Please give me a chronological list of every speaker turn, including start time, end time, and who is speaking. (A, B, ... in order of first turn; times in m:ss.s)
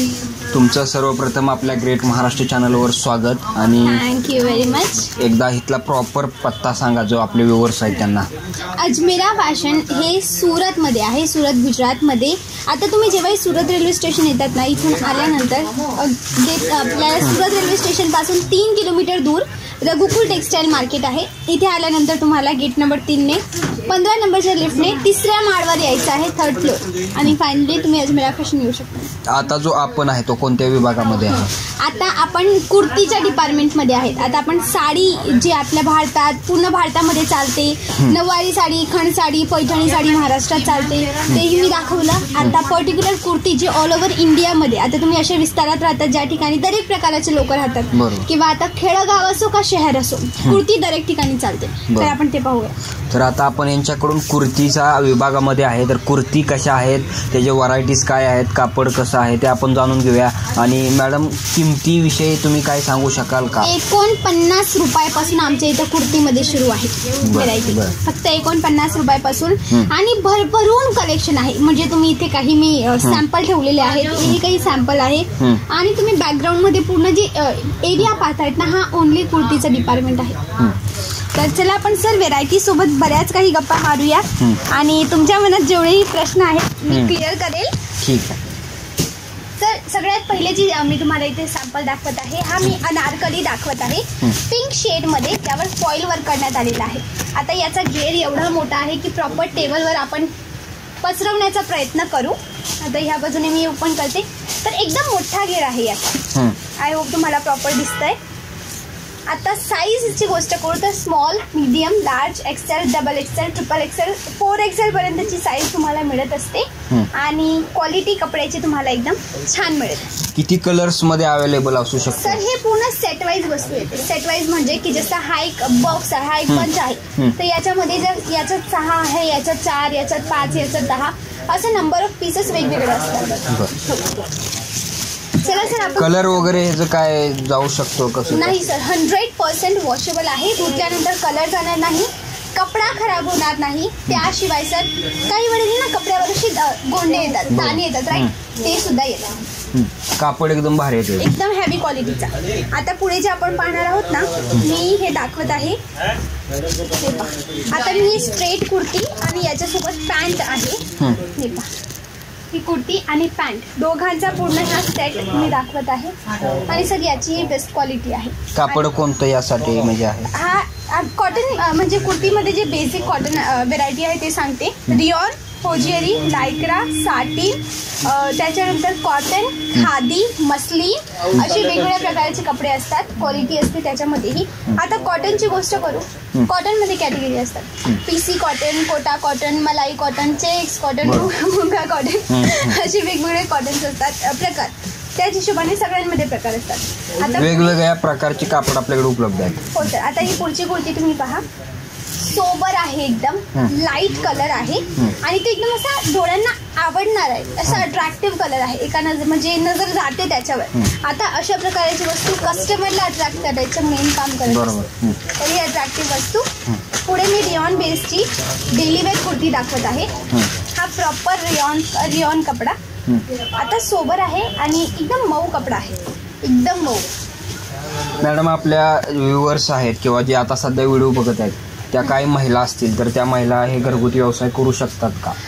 0:00.5-0:04.0 A
0:03.8-0:05.1 B
0:05.1-0:08.3 A
0:08.6-0:29.1 B
0:29.3-0:31.5 A
0:31.3-0:52.8 B
0:47.9-0:48.3 A
0:51.9-0:52.1 A
0:53.1-1:03.7 A
1:03.6-1:20.5 B
1:07.2-1:08.0 A
1:21.4-1:27.7 B
1:24.4-1:24.6 A
1:28.0-1:28.4 A
1:29.6-1:40.3 B
1:41.0-1:46.2 B
1:46.8-1:48.2 B
1:49.3-2:00.1 B
2:00.3-2:02.4 A
2:02.1-2:14.2 B
2:06.5-2:07.4 A
2:13.5-2:13.7 A
2:15.4-2:16.4 B
2:15.9-2:18.6 A
2:18.3-2:29.4 B
2:27.5-2:28.3 A
2:29.7-2:31.3 A
2:31.2-2:35.8 B
2:36.9-2:40.8 B
2:41.3-2:41.7 B
2:42.5-2:46.2 B
2:46.7-2:48.8 B
2:48.5-2:50.3 A
2:50.3-3:17.8 B
3:11.0-3:11.3 A
3:12.3-3:12.7 A
3:17.4-3:19.9 A
3:19.7-3:21.4 B
3:22.2-3:34.7 B
3:34.5-3:35.2 A
3:35.3-3:36.5 B
3:37.0-3:40.1 B
3:40.8-3:42.8 B
3:43.4-3:47.1 B
3:48.2-3:55.4 A